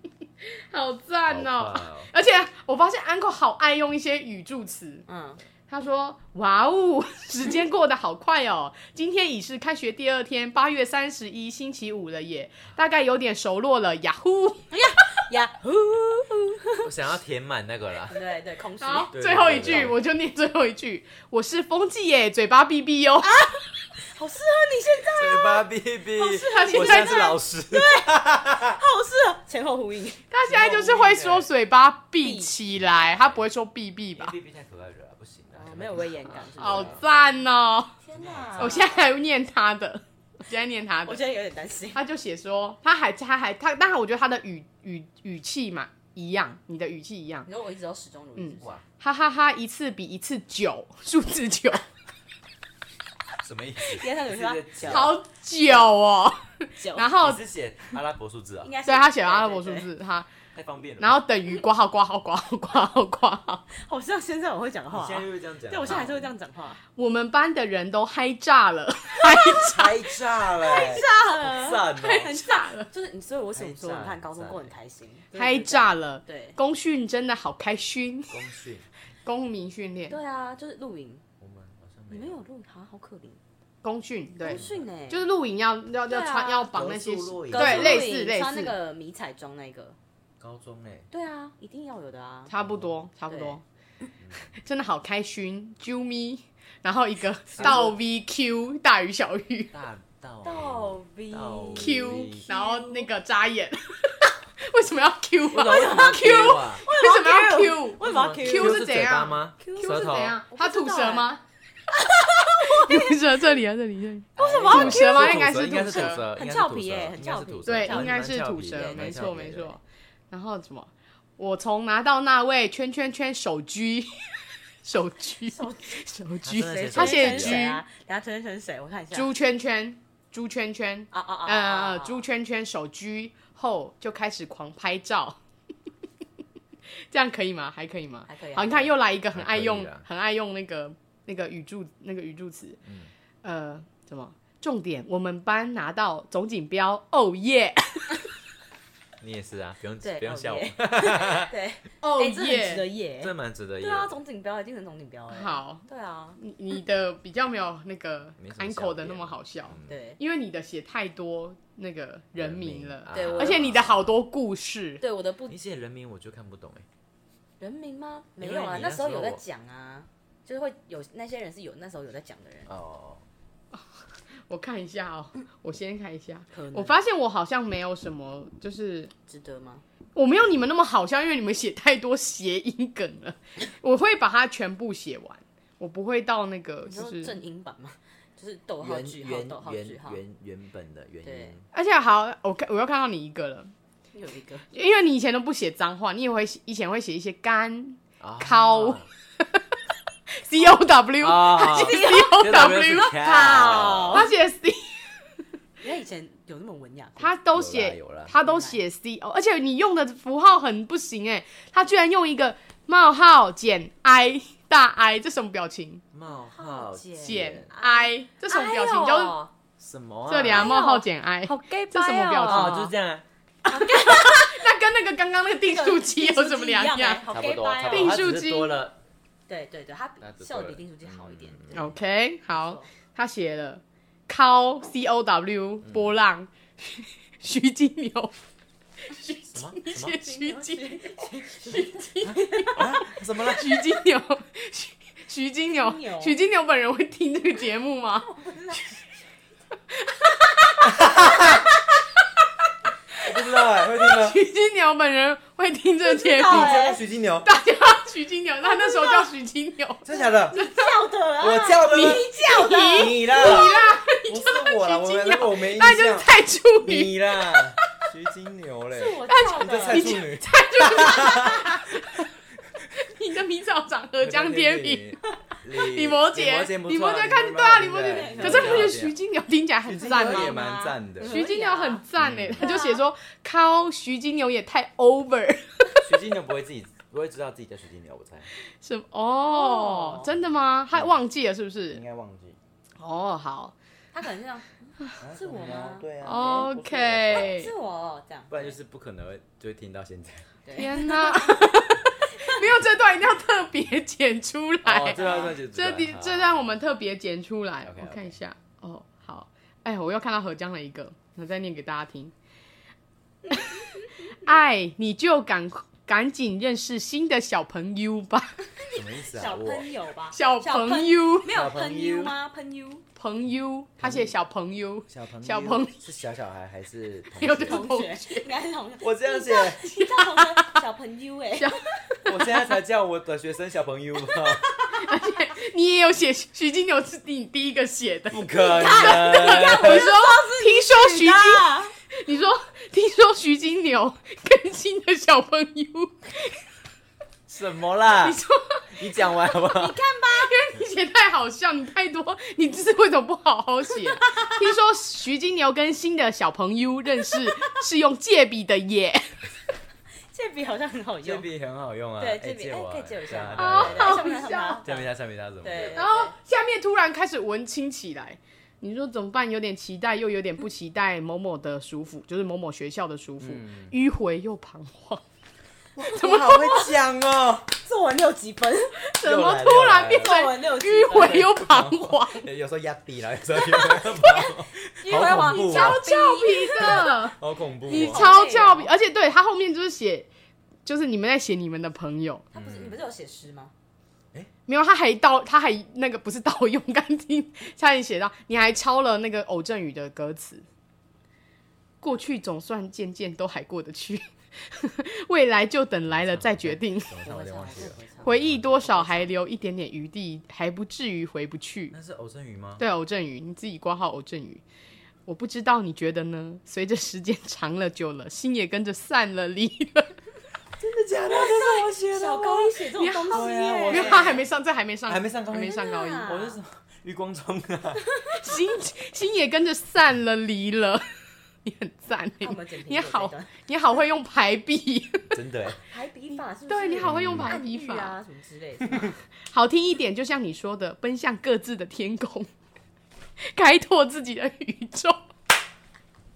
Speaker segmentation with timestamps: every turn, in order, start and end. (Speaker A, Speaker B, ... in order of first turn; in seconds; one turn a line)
Speaker A: 0.4-5.0
Speaker B: 1.3-2.1
Speaker C: 5.1-5.4
Speaker A: 5.7-14.7
Speaker C: 14.7-16.9
Speaker B: 16.8-18.2
Speaker C: 18.1-19.9
Speaker A: 18.8-23.4
Speaker B: 19.1-20.0
Speaker C: 23.2-25.6
Speaker B: 25.2-28.8
Speaker C: 26.1-30.3
Speaker A: 26.3-27.4
Speaker A: 30.3-34.3
Speaker B: 30.4-31.5
Speaker C: 32.2-32.5
Speaker B: 32.7-33.4
Speaker B: 34.1-37.0
Speaker C: 35.5-37.4
Speaker A: 36.6-37.9
Speaker C: 38.0-39.1
Speaker B: 38.1-38.8
Speaker A: 38.6-41.2
Speaker C: 41.0-42.0
Speaker A: 41.9-47.5
Speaker C: 47.5-48.6
Speaker A: 48.4-51.8
Speaker B: 53.4-55.2
Speaker C: 53.8-55.9
Speaker A: 54.8-57.4
Speaker C: 56.8-57.1
Speaker B: 57.2-58.7
Speaker C: 58.6-59.9
Speaker A: 58.9-60.3
Speaker B: 60.5-61.2
Speaker A: 61.0-63.6
Speaker C: 63.7-66.8
Speaker B: 64.9-66.3
Speaker A: 67.0-70.2
Speaker B: 69.6-72.3
Speaker C: 70.6-76.6
Speaker A: 71.9-72.9
Speaker B: 73.5-74.7
Speaker A: 75.3-78.4
Speaker B: 78.3-78.9
Speaker A: 79.2-80.2
Speaker C: 80.1-81.2
Speaker B: 81.4-82.4
Speaker C: 82.1-83.4
Speaker A: 83.8-88.7
Speaker C: 84.4-85.2
Speaker B: 84.5-84.9
Speaker C: 86.0-86.7
Speaker B: 86.7-88.1
Speaker C: 87.5-90.0
Speaker B: 90.4-91.1
Speaker C: 91.1-92.5
Speaker A: 92.5-93.6
Speaker B: 92.6-92.9
Speaker C: 93.3-93.6
Speaker B: 94.2-94.5
Speaker A: 94.5-99.7
Speaker B: 97.5-97.9
Speaker C: 97.6-97.9
Speaker B: 99.7-102.4
Speaker C: 100.4-103.1
Speaker A: 101.7-111.4
Speaker B: 105.5-106.8
Speaker C: 105.5-108.8
Speaker B: 108.0-110.4
Speaker C: 109.6-111.3
Speaker C: 112.0-113.2
Speaker A: 112.6-116.2
Speaker C: 114.4-119.4
Speaker B: 114.4-119.8
Speaker A: 117.7-119.8
Speaker A: 120.3-127.8
Speaker C: 125.5-126.0
Speaker B: 126.4-127.7
Speaker C: 126.6-129.3
Speaker A: 129.1-135.4
Speaker C: 131.1-132.2
Speaker A: 137.1-142.8
Speaker C: 138.3-138.9
Speaker B: 139.3-140.0
Speaker B: 142.8-143.1
Speaker A: 143.4-148.3
Speaker B: 149.2-151.5
Speaker C: 150.0-156.4
Speaker A: 152.0-152.9
Speaker B: 153.2-154.2
Speaker A: 155.3-155.8
Speaker A: 156.4-165.0
Speaker B: 158.4-160.0
Speaker C: 159.9-160.2
Speaker B: 162.4-164.2
Speaker C: 163.1-163.8
Speaker C: 165.0-165.5
Speaker B: 165.5-166.8
Speaker C: 167.6-172.7
Speaker B: 168.4-169.4
Speaker B: 172.7-173.2
Speaker A: 174.5-179.1
Speaker C: 176.5-177.0
Speaker C: 179.3-179.8
Speaker A: 180.1-187.3
Speaker C: 186.8-190.2
Speaker B: 188.8-191.7
Speaker C: 191.2-191.5
Speaker A: 191.7-193.7
Speaker C: 194.1-194.7
Speaker A: 194.7-199.6
Speaker B: 198.2-199.1
Speaker A: 200.4-205.1
Speaker B: 201.2-204.2
Speaker C: 201.7-204.3
Speaker C: 205.8-207.3
Speaker A: 207.2-216.0
Speaker B: 207.5-208.3
Speaker C: 208.3-208.8
Speaker B: 216.1-217.7
Speaker C: 216.5-219.5
Speaker A: 217.2-219.3
Speaker B: 219.8-220.8
Speaker A: 220.3-222.9
Speaker C: 220.5-222.9
Speaker B: 222.4-223.2
Speaker C: 223.6-224.7
Speaker A: 223.7-227.2
Speaker C: 225.6-228.3
Speaker B: 227.3-229.0
Speaker A: 227.9-228.8
Speaker C: 229.5-231.8
Speaker B: 230.2-232.0
Speaker A: 231.7-238.4
Speaker C: 232.5-232.9
Speaker B: 235.8-236.1
Speaker A: 239.1-248.3
Speaker B: 239.5-240.2
Speaker C: 240.1-242.8
Speaker B: 242.2-243.8
Speaker C: 245.7-246.4
Speaker C: 248.2-249.0
Speaker A: 249.9-252.2
Speaker B: 250.8-251.6
Speaker B: 253.2-254.4
Speaker A: 253.2-256.9
Speaker C: 256.0-257.0
Speaker B: 256.4-257.5
Speaker A: 257.4-260.9
Speaker C: 258.6-259.3
Speaker B: 260.0-260.6
Speaker C: 260.2-263.9
Speaker B: 261.4-262.3
Speaker A: 261.8-267.7
Speaker B: 262.9-263.7
Speaker B: 264.3-266.3
Speaker B: 266.8-271.9
Speaker C: 268.9-270.2
Speaker A: 269.3-272.3
Speaker A: 272.9-275.1
Speaker B: 274.2-279.1
Speaker A: 275.7-280.6
Speaker C: 278.1-278.9
Speaker B: 279.8-281.5
Speaker C: 279.9-282.0
Speaker A: 281.2-286.0
Speaker B: 282.2-282.7
Speaker C: 282.6-283.0
Speaker B: 286.0-288.5
Speaker A: 288.8-292.0
Speaker C: 289.5-290.2
Speaker B: 291.9-292.6
Speaker A: 293.0-293.7
Speaker C: 294.1-296.7
Speaker B: 295.2-297.6
Speaker A: 296.2-297.7
Speaker C: 297.5-298.7
Speaker B: 298.5-300.8
Speaker C: 300.6-301.7
Speaker A: 300.7-312.3
Speaker C: 302.3-302.6
Speaker B: 304.8-306.7
Speaker C: 305.1-305.5
Speaker B: 307.8-308.4
Speaker C: 313.4-314.3
Speaker A: 313.5-313.8
Speaker A: 314.4-318.5
Speaker C: 318.8-323.0
Speaker B: 318.9-319.9
Speaker A: 320.3-321.5
Speaker B: 321.5-322.3
Speaker A: 323.2-325.9
Speaker B: 324.0-324.3
Speaker B: 325.1-327.9
Speaker A: 327.4-328.5
Speaker C: 327.6-331.7
Speaker B: 329.0-329.8
Speaker A: 329.8-330.8
Speaker A: 331.6-332.6
Speaker B: 332.2-334.7
Speaker A: 334.9-346.6
Speaker B: 338.3-340.1
Speaker C: 338.6-341.9
Speaker B: 347.5-348.4
Speaker A: 348.2-359.3
Speaker B: 349.0-350.0
Speaker C: 349.7-350.5
Speaker C: 354.2-354.5
Speaker C: 360.3-361.4
Speaker B: 361.2-364.2
Speaker C: 362.2-365.1
Speaker A: 363.6-364.8
Speaker B: 364.8-366.0
Speaker C: 365.6-366.3
Speaker A: 365.8-375.2
Speaker B: 373.4-373.9
Speaker B: 376.0-377.7
Speaker A: 376.1-376.8
Speaker C: 376.5-376.9
Speaker C: 377.8-379.0
Speaker A: 379.1-382.4
Speaker B: 379.2-380.4
Speaker C: 380.1-381.6
Speaker B: 381.1-386.0
Speaker C: 383.7-387.0
Speaker A: 385.4-390.3
Speaker B: 386.7-388.2
Speaker C: 387.9-388.9
Speaker A: 390.9-392.4
Speaker C: 392.5-393.7
Speaker B: 392.5-393.0
Speaker A: 394.7-400.6
Speaker A: 402.0-407.2
Speaker B: 406.1-408.7
Speaker C: 407.2-409.3
Speaker A: 408.2-411.9
Speaker B: 411.9-412.8
Speaker A: 412.8-414.6
Speaker A: 415.3-420.1
Speaker B: 420.8-422.8
Speaker C: 421.3-424.4
Speaker A: 423.0-426.3
Speaker B: 423.3-424.4
Speaker B: 425.1-428.0
Speaker C: 425.5-426.6
Speaker C: 428.1-428.5
Speaker A: 428.3-431.0
Speaker A: 431.6-435.4
Speaker C: 432.4-433.5
Speaker B: 435.3-435.8
Speaker C: 435.9-439.1
Speaker A: 436.7-438.2
Speaker B: 437.0-437.6
Speaker B: 438.9-439.1
Speaker A: 439.5-442.5
Speaker A: 443.5-445.2